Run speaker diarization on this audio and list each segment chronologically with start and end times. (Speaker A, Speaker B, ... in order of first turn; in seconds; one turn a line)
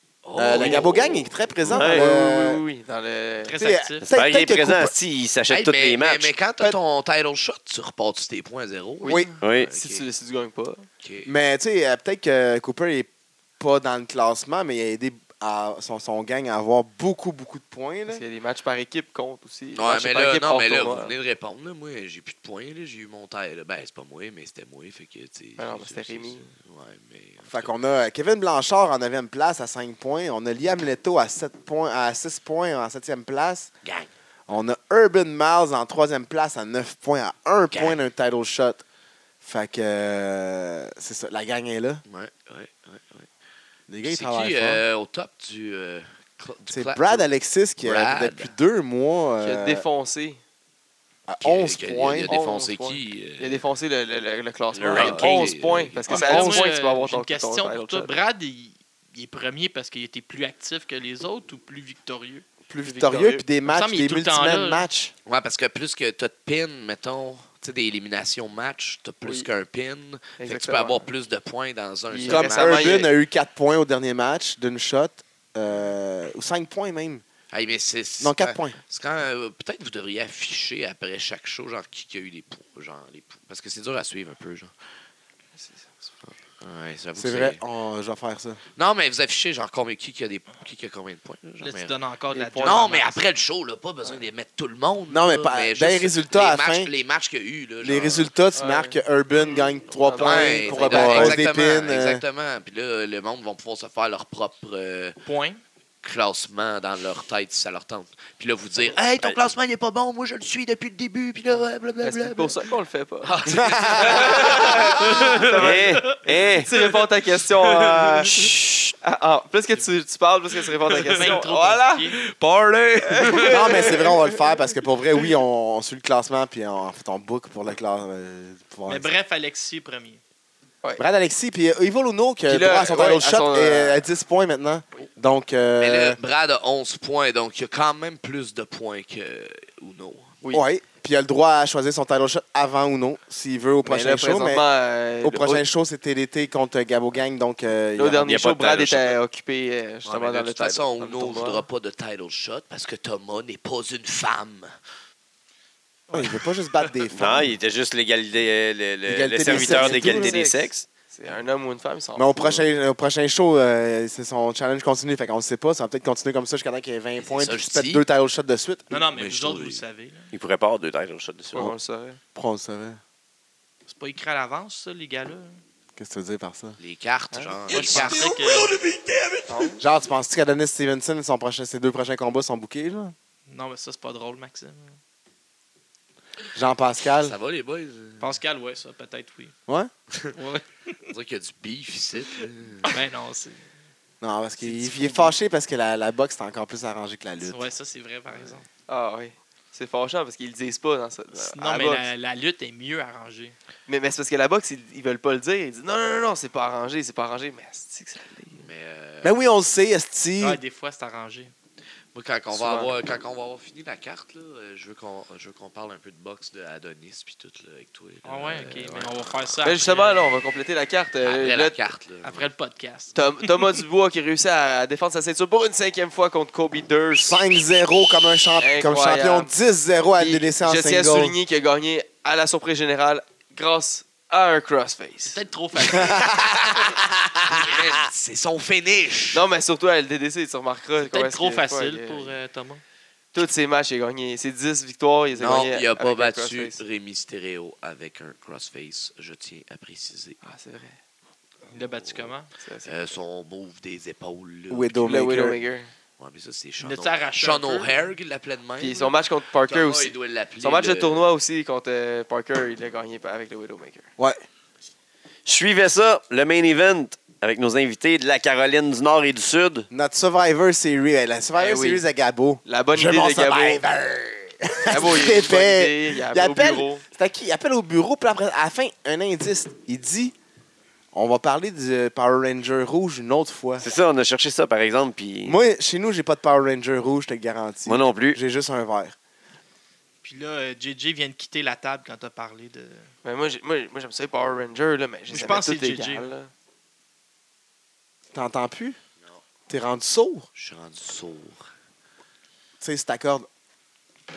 Speaker A: 0.2-1.8
Speaker B: 0.4-2.6
Speaker C: 0.6-0.9
Speaker D: 1.8-2.1
Speaker C: 1.8-3.6
Speaker E: 3.4-4.1
Speaker B: 3.5-4.9
Speaker D: 4.1-6.3
Speaker A: 5.5-10.1
Speaker C: 9.0-10.8
Speaker D: 9.4-9.7
Speaker A: 11.0-11.3
Speaker B: 11.2-18.2
Speaker C: 18.1-21.1
Speaker A: 19.7-27.7
Speaker C: 25.6-26.5
Speaker B: 27.4-33.7
Speaker A: 33.8-34.1
Speaker B: 34.5-38.8
Speaker A: 37.7-38.0
Speaker B: 39.4-42.0
Speaker A: 42.0-43.3
Speaker B: 43.9-44.8
Speaker A: 44.0-47.2
Speaker B: 46.7-49.8
Speaker A: 47.8-48.5
Speaker C: 49.4-50.4
Speaker B: 51.3-52.4
Speaker A: 51.4-53.6
Speaker C: 52.2-58.1
Speaker D: 54.7-55.5
Speaker A: 54.9-56.2
Speaker E: 56.1-62.4
Speaker B: 56.2-56.6
Speaker B: 62.7-65.1
Speaker C: 62.8-63.4
Speaker E: 63.7-64.9
Speaker A: 65.2-73.0
Speaker C: 70.4-71.1
Speaker C: 72.1-73.1
Speaker B: 72.3-77.2
Speaker A: 77.5-84.7
Speaker B: 78.2-78.8
Speaker C: 85.5-86.1
Speaker A: 86.2-87.6
Speaker B: 87.2-88.6
Speaker A: 88.8-92.0
Speaker E: 91.6-93.2
Speaker C: 92.3-92.9
Speaker A: 92.6-98.3
Speaker B: 95.1-96.9
Speaker B: 97.8-102.2
Speaker C: 98.5-99.0
Speaker C: 99.9-101.4
Speaker A: 100.1-105.2
Speaker E: 105.2-105.6
Speaker A: 106.0-112.6
Speaker C: 112.0-122.1
Speaker A: 113.2-115.8
Speaker B: 113.5-114.8
Speaker D: 115.6-116.7
Speaker A: 117.5-118.3
Speaker D: 118.3-118.9
Speaker A: 120.8-121.4
Speaker E: 121.1-122.2
Speaker A: 122.2-124.1
Speaker C: 123.0-124.4
Speaker B: 123.5-129.2
Speaker E: 128.9-130.2
Speaker B: 131.0-136.2
Speaker C: 132.5-134.0
Speaker A: 135.8-140.3
Speaker B: 140.5-144.6
Speaker C: 143.8-145.6
Speaker B: 145.2-148.3
Speaker C: 147.9-151.7
Speaker D: 148.2-149.2
Speaker A: 150.0-154.7
Speaker E: 156.1-156.3
Speaker B: 156.1-157.5
Speaker D: 157.1-160.8
Speaker B: 159.1-160.5
Speaker C: 159.5-162.6
Speaker B: 162.2-168.9
Speaker A: 167.2-168.0
Speaker E: 168.9-170.3
Speaker A: 169.1-169.8
Speaker D: 170.3-171.7
Speaker C: 171.5-172.2
Speaker B: 172.3-173.0
Speaker E: 173.9-175.6
Speaker B: 175.9-176.8
Speaker A: 176.8-179.7
Speaker C: 177.3-178.0
Speaker E: 177.7-178.7
Speaker C: 179.5-179.8
Speaker B: 179.8-183.1
Speaker E: 183.5-185.0
Speaker B: 186.5-187.4
Speaker A: 187.2-188.3
Speaker E: 188.2-189.5
Speaker E: 190.3-190.9
Speaker A: 191.1-192.9
Speaker E: 192.8-193.6
Speaker B: 194.2-197.7
Speaker E: 194.6-195.3
Speaker E: 197.4-198.7
Speaker C: 198.9-202.1
Speaker E: 201.3-203.5
Speaker C: 203.9-208.7
Speaker A: 208.6-209.3
Speaker B: 209.2-210.6
Speaker E: 210.4-211.5
Speaker A: 212.1-219.5
Speaker C: 212.5-212.9
Speaker E: 218.2-220.3
Speaker C: 219.6-221.8
Speaker A: 221.2-222.5
Speaker E: 222.2-223.4
Speaker C: 223.1-227.4
Speaker B: 227.2-231.3
Speaker C: 228.6-229.5
Speaker C: 230.2-235.4
Speaker E: 235.2-236.3
Speaker B: 235.9-237.9
Speaker A: 236.2-236.9
Speaker A: 237.5-239.5
Speaker C: 239.3-242.3
Speaker E: 241.0-242.8
Speaker C: 243.3-246.8
Speaker A: 245.4-250.4
Speaker C: 250.4-251.0
Speaker E: 251.7-252.5
Speaker A: 251.8-252.3
Speaker C: 252.6-253.0
Speaker A: 252.8-255.0
Speaker B: 254.7-255.6
Speaker C: 255.0-255.9
Speaker A: 256.2-261.2
Speaker E: 256.8-257.9
Speaker C: 258.8-264.1
Speaker B: 264.2-264.4
Speaker D: 265.4-269.9
Speaker B: 269.9-280.3
Speaker C: 271.5-272.0
Speaker C: 272.6-273.8
Speaker C: 274.9-277.0
Speaker B: 281.1-283.9
Speaker D: 283.8-285.6
Speaker B: 285.4-289.1
Speaker D: 287.9-288.4
Speaker E: 290.2-293.1
Speaker C: 293.2-296.5
Speaker E: 295.3-296.3
Speaker B: 298.3-299.0
Speaker B: 299.7-300.5
Speaker A: 300.6-301.6
Speaker B: 302.8-303.5